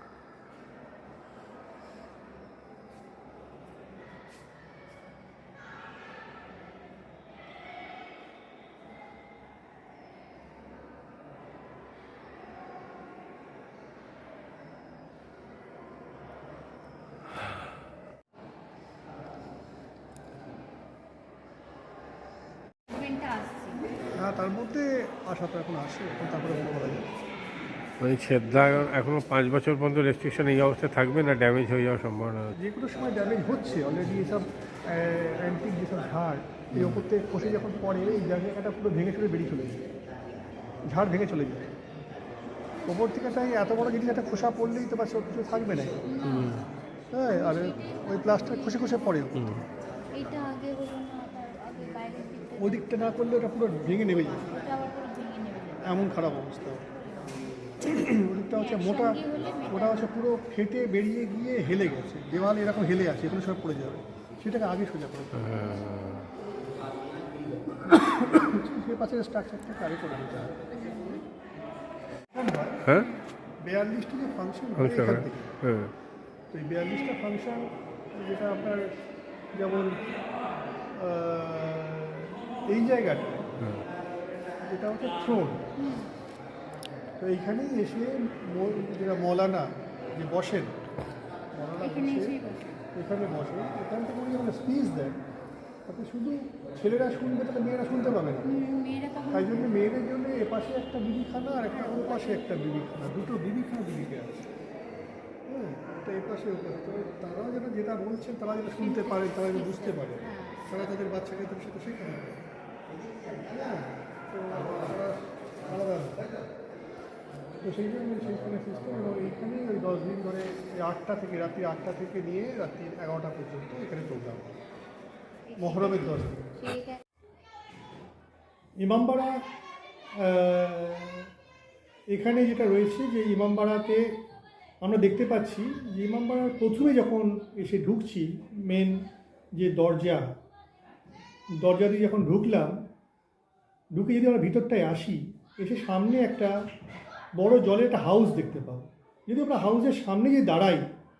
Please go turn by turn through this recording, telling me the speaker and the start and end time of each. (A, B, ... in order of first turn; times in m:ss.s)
0:22.9-0:23.7 A
0:24.0-0:27.0 B
0:28.0-0:32.5 C
0:32.6-0:39.8 B
0:40.9-0:41.7 B
0:42.8-0:46.0 B
0:46.0-0:46.3 A
0:46.2-0:46.6 C
0:47.1-0:49.6 B
0:47.3-0:49.2 A
0:50.1-0:52.9 A
0:52.6-0:54.7 B
0:54.6-0:55.8 A
0:55.8-0:56.9 B
0:57.0-0:57.3 A
0:57.8-1:05.9 B
0:58.5-1:00.1 A
1:05.5-1:06.2 C
1:07.8-1:10.6 B
1:10.8-1:11.2 A
1:12.3-1:12.9 B
1:13.6-1:15.6 B
1:14.8-1:15.9 C
1:16.5-1:18.9 B
1:19.5-1:19.9 B
1:20.9-1:23.5 B
1:24.6-1:25.6 B
1:25.8-1:26.1 A
1:27.2-1:30.8 B
1:31.5-1:32.4 B
1:31.8-1:32.8 A
1:32.9-1:35.2 B
1:35.9-1:38.5 B
1:38.4-1:39.5 A
1:39.3-1:44.5 B
1:41.7-1:42.3 A
1:45.5-1:52.4 B
1:48.8-1:50.6 A
1:53.5-1:56.3 B
1:57.6-2:04.6 B
2:05.5-2:07.0 A
2:05.6-2:06.6 B
2:08.8-2:09.4 B
2:10.2-2:11.3 B
2:12.1-2:14.2 B
2:14.8-2:19.0 B
2:19.6-2:20.3 B
2:21.6-2:22.8 B
2:23.9-2:26.5 B
2:27.4-2:30.8 B